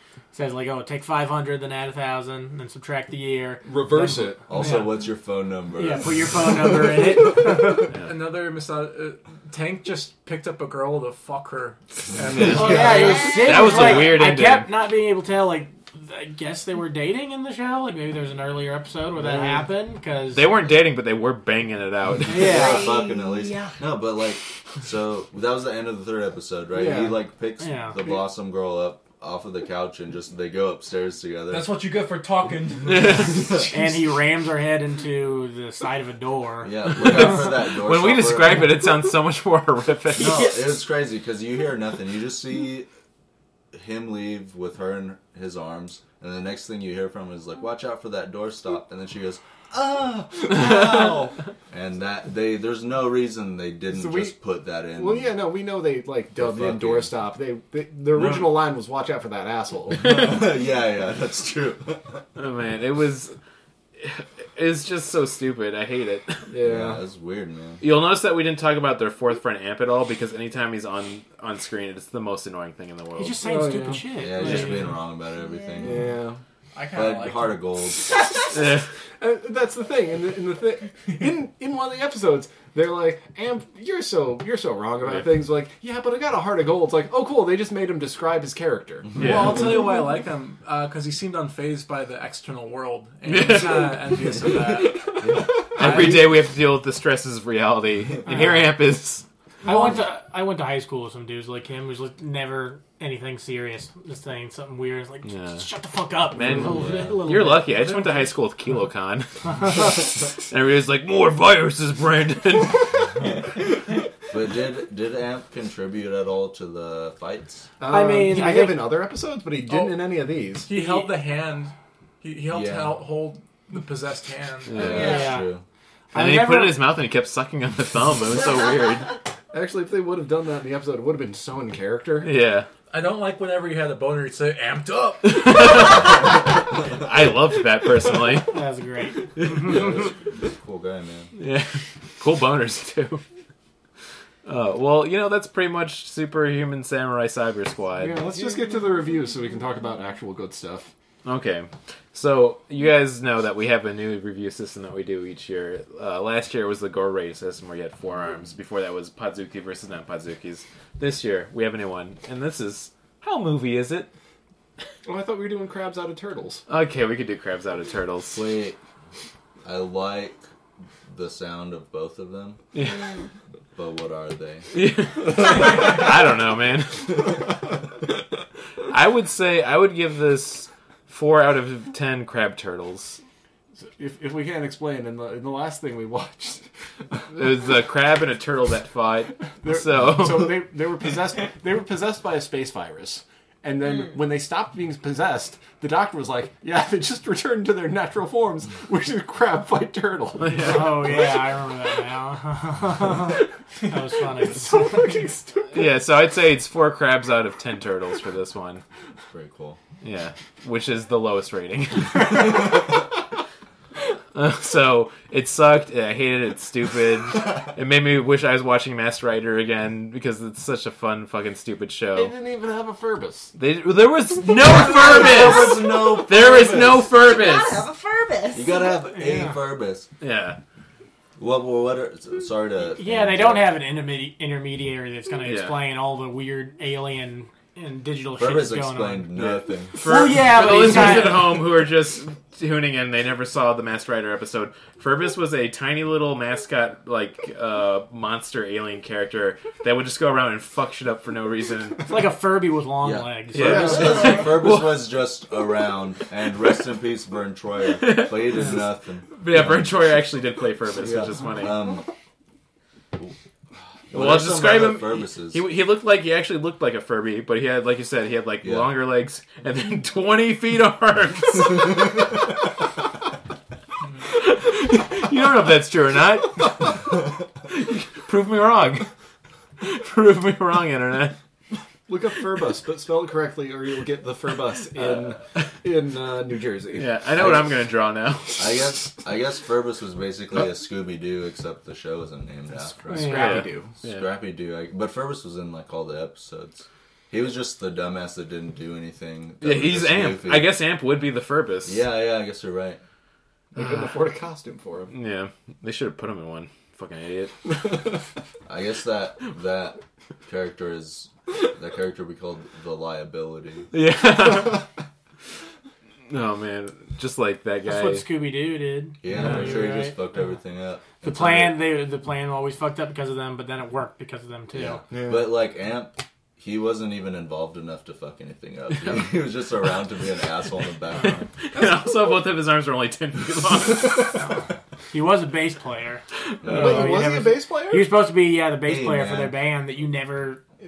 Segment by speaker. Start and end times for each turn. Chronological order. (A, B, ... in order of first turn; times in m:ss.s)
0:00.3-0:04.9 A
0:03.6-0:04.4 B
0:04.5-0:06.8 C
0:05.8-0:07.9 A
0:08.0-0:14.0 D
0:12.3-0:14.7 E
0:12.5-0:20.8 A
0:19.2-0:19.6 B
0:20.3-0:22.7 E
0:22.3-0:22.8 A
0:22.3-0:31.8 C
0:22.4-0:23.8 F
0:26.7-0:27.2 B
0:27.6-0:28.0 A
0:31.5-0:33.7 D
0:32.9-0:33.6 E
0:33.7-0:37.3 A
0:36.6-0:38.7 C
0:37.0-0:40.5 E
0:40.2-0:42.9 C
0:43.7-0:55.4 C
0:53.9-0:54.4 B
0:54.9-1:00.3 B
0:56.4-0:57.2 C
0:59.9-1:02.2 C
1:02.4-1:03.4 E
1:04.0-1:06.5 E
1:06.5-1:07.0 B
1:06.6-1:07.8 C
1:07.8-1:13.4 E
1:13.2-1:15.0 A
1:13.4-1:14.1 B
1:14.2-1:16.1 C
1:15.4-1:16.0 F
1:15.8-1:16.4 B
1:16.8-1:17.7 D
1:16.9-1:18.1 C
1:18.5-1:18.8 E
1:19.2-1:29.2 B
1:29.2-1:35.2 D
1:29.2-1:29.6 E
1:33.3-1:34.0 E
1:35.2-1:35.5 C
1:35.8-1:39.2 E
1:35.8-1:36.2 D
1:38.3-1:38.7 A
1:39.6-1:47.8 A
1:45.2-1:45.7 E
1:46.3-1:53.0 E
1:47.8-1:48.2 D
1:54.3-1:57.7 C
1:57.8-2:00.7 B
1:57.9-1:59.0 A
1:59.7-2:00.1 D
2:00.6-2:04.9 D
2:00.8-2:01.1 A
2:02.5-2:03.0 C
2:04.7-2:05.0 E
2:04.8-2:05.6 C
2:04.9-2:05.3 F
2:04.9-2:05.5 A
2:06.1-2:06.9 A
2:06.2-2:09.1 E
2:09.5-2:12.3 B
2:12.2-2:12.7 E
2:12.9-2:15.7 D
2:15.2-2:16.4 E
2:16.9-2:18.5 E
2:18.4-2:20.0 A
2:19.4-2:19.8 E
2:19.5-2:21.3 C
2:21.4-2:23.2 E
2:24.4-2:28.2 E
2:28.0-2:30.9 B
2:31.2-2:44.1 E
2:45.0-2:46.6 B
2:46.7-2:48.5 E
2:48.3-2:48.8 C
2:49.6-2:50.4 C
2:51.1-2:52.6 C
2:52.7-2:53.1 E
2:53.8-2:54.7 C
2:54.7-2:57.4 E
2:58.9-3:03.2 E
3:04.0-3:06.7 B
3:07.3-3:10.6 E
3:09.6-3:20.8 B
3:20.4-3:21.0 E
3:20.5-3:25.1 A
3:24.6-3:25.9 B
3:25.7-3:28.8 E
3:29.3-3:29.8 C
3:30.0-3:32.7 E
3:34.4-3:42.4 E
3:42.2-3:43.5 B
3:43.6-3:47.9 E
3:44.8-3:47.1 C
3:45.2-3:45.5 B
3:46.5-3:48.9 F
3:48.5-3:50.1 C
3:49.1-3:49.6 A
3:50.2-3:50.6 E
3:51.4-3:53.8 C
3:53.0-4:01.6 A
3:55.4-3:55.8 E
3:58.4-4:00.0 C
4:00.0-4:12.1 E
4:12.1-4:14.3 A
4:13.0-4:20.2 C
4:13.5-4:14.9 E
4:13.6-4:14.1 B
4:18.0-4:18.6 E
4:19.3-4:21.8 E
4:21.0-4:22.0 C
4:24.1-4:25.6 C
4:24.1-4:32.0 E
4:28.6-4:28.9 C
4:34.3-4:37.0 E
4:37.7-4:39.1 E
4:39.8-4:41.4 E
4:42.1-4:47.6 B
4:45.0-4:45.7 E
4:47.0-4:48.8 E
4:48.6-5:00.8 C
4:52.7-4:53.9 B
4:53.1-4:53.5 A
4:53.1-4:54.3 E
4:59.6-5:02.0 E
5:01.8-5:03.0 C
5:03.7-5:05.1 B
5:03.8-5:04.2 E
5:05.1-5:08.0 E
5:08.7-5:13.9 C
5:13.9-5:14.8 E
5:16.3-5:18.3 E
5:17.8-5:20.2 A
5:19.2-5:21.9 C
5:19.4-5:19.9 E
5:21.2-5:25.0 A
5:24.7-5:31.5 C
5:25.1-5:25.5 B
5:31.2-5:34.5 E
5:35.1-5:40.6 A
5:36.6-5:37.2 C
5:36.7-5:38.2 B
5:38.9-5:39.6 C